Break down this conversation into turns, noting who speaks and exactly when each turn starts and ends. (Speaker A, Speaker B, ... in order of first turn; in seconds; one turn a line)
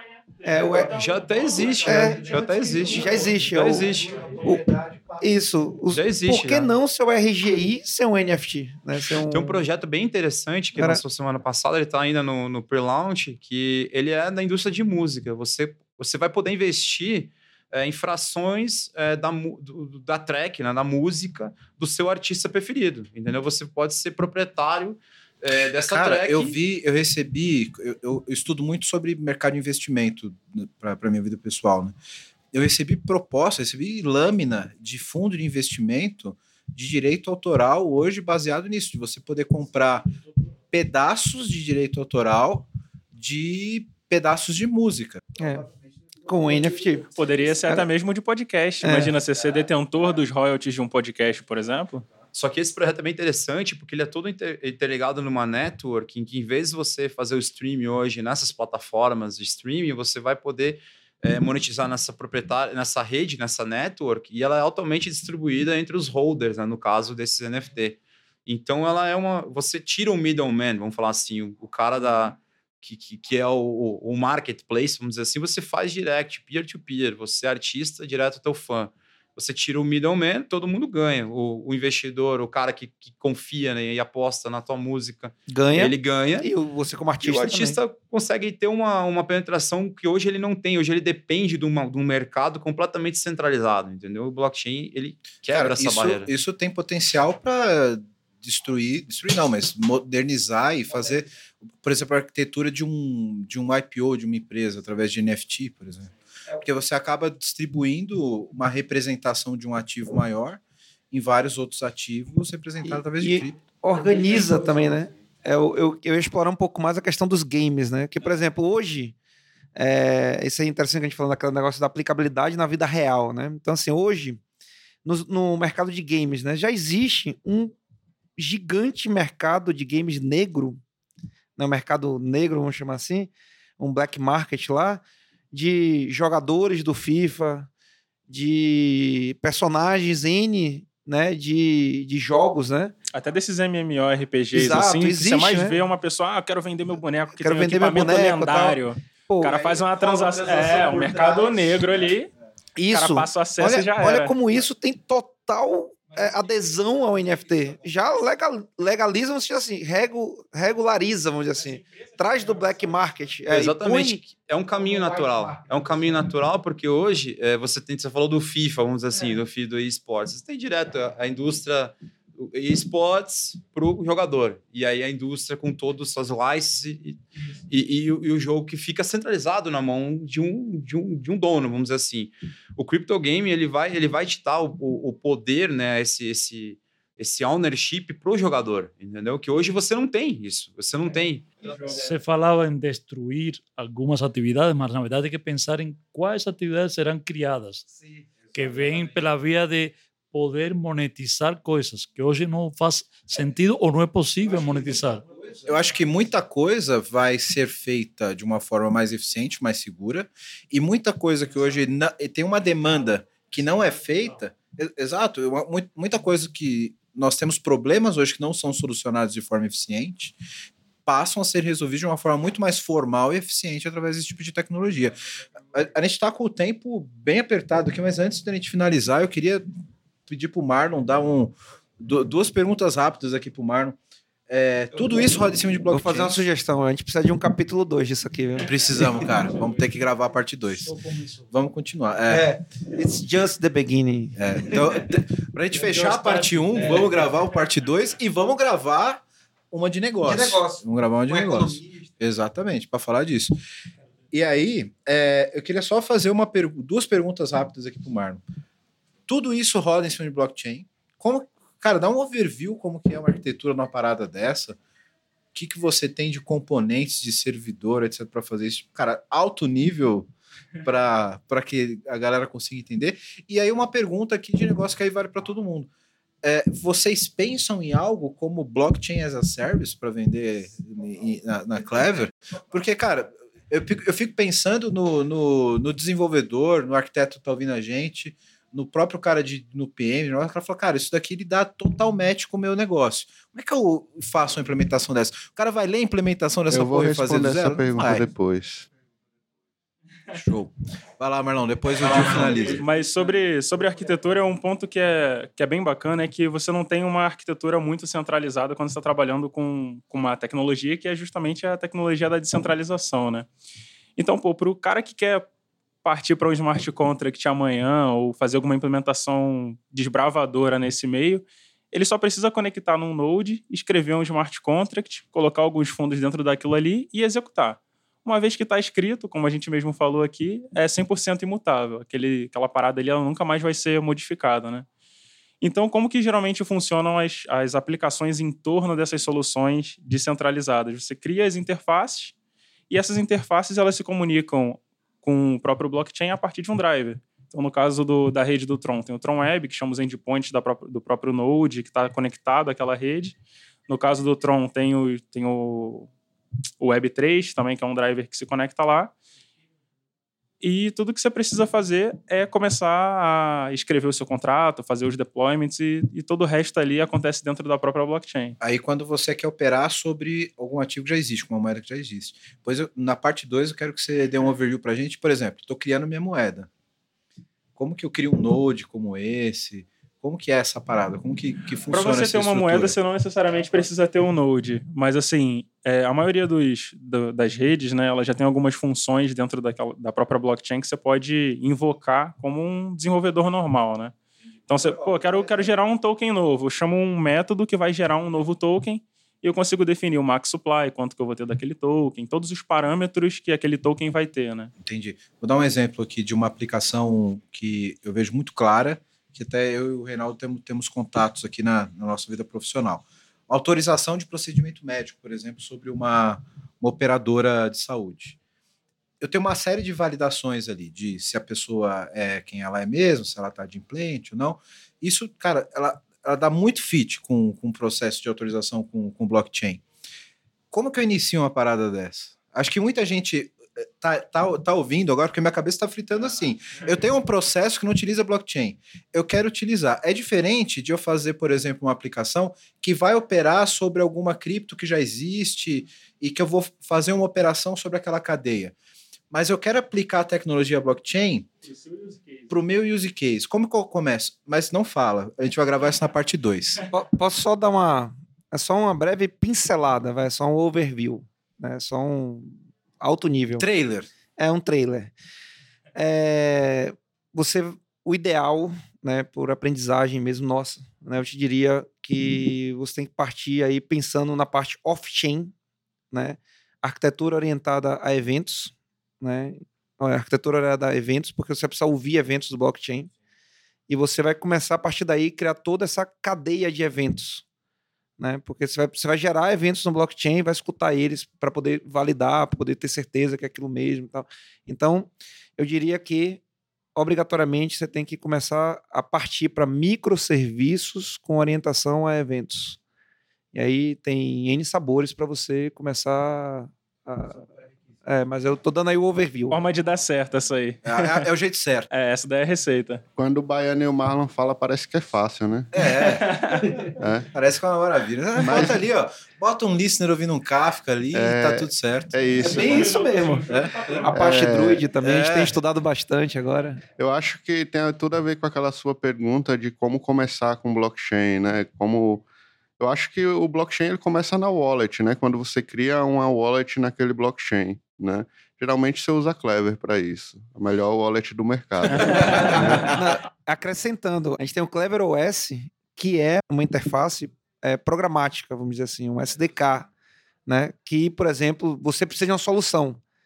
Speaker A: 0.4-0.9
Speaker B: 0.9-4.2
Speaker A: 1.8-9.6
Speaker B: 5.9-6.7
Speaker B: 9.2-26.6
Speaker C: 25.8-31.9
Speaker C: 32.5-40.1
Speaker C: 40.7-45.2
Speaker A: 45.4-45.7
Speaker A: 46.2-47.1
Speaker D: 47.1-52.0
Speaker A: 48.8-49.1
Speaker B: 52.3-86.5
Speaker A: 85.5-87.8
Speaker B: 87.2-96.3
Speaker C: 95.5-113.6
Speaker A: 112.8-119.2
Speaker A: 119.8-124.4
Speaker A: 125.0-127.8
Speaker A: 128.4-130.8
Speaker A: 131.6-137.7
Speaker A: 138.3-142.9
Speaker D: 143.1-152.3
Speaker A: 144.5-145.8
Speaker A: 147.4-149.7
Speaker C: 149.5-151.9
Speaker A: 152.8-164.2
Speaker D: 152.9-154.3
Speaker B: 163.5-191.5
Speaker E: 191.7-197.8
Speaker E: 198.5-205.3
Speaker C: 205.6-220.4
Speaker C: 221.1-229.6
Speaker C: 230.3-234.0
Speaker C: 234.5-236.4
Speaker A: 235.9-238.7
Speaker C: 238.6-241.0
Speaker E: 240.8-241.4
Speaker C: 241.5-242.5
Speaker A: 242.3-244.4
Speaker C: 244.4-253.6
Speaker A: 245.8-246.9
Speaker A: 250.2-251.8
Speaker C: 254.3-258.4
Speaker C: 259.3-264.8
Speaker C: 265.5-270.3
Speaker C: 270.8-275.9
Speaker C: 276.4-298.3
Speaker F: 296.7-298.9
Speaker C: 300.3-302.9
Speaker D: 302.4-313.5
Speaker D: 314.1-315.5
Speaker D: 316.0-334.9
Speaker D: 335.6-342.3
Speaker D: 342.9-353.4
Speaker D: 353.9-356.1
Speaker D: 356.8-359.1
Speaker D: 360.6-368.6
Speaker C: 368.6-376.7
Speaker C: 377.8-383.0
Speaker D: 381.9-394.1
Speaker D: 394.7-404.7
Speaker C: 404.8-418.4
Speaker C: 419.2-429.8
Speaker C: 430.7-448.7
Speaker C: 449.3-451.5
Speaker D: 451.7-452.5
Speaker C: 452.5-456.8
Speaker A: 456.9-463.7
Speaker C: 463.6-464.1
Speaker A: 464.4-465.1
Speaker A: 465.9-475.5
Speaker A: 476.1-483.1
Speaker A: 483.9-487.4
Speaker A: 488.2-496.4
Speaker A: 496.9-502.8
Speaker A: 503.5-507.5
Speaker A: 508.0-509.6
Speaker D: 509.5-511.3
Speaker C: 510.8-511.9
Speaker D: 511.9-513.0
Speaker F: 513.2-515.7
Speaker C: 515.7-516.6
Speaker D: 516.2-516.7
Speaker F: 517.0-517.3
Speaker C: 517.3-522.8
Speaker F: 518.4-518.8
Speaker F: 521.1-523.0
Speaker D: 522.4-524.1
Speaker A: 522.4-526.8
Speaker C: 523.5-523.8
Speaker F: 524.1-524.8
Speaker C: 525.0-525.5
Speaker F: 527.0-532.2
Speaker F: 532.8-543.0
Speaker A: 542.1-549.9
Speaker A: 550.5-553.0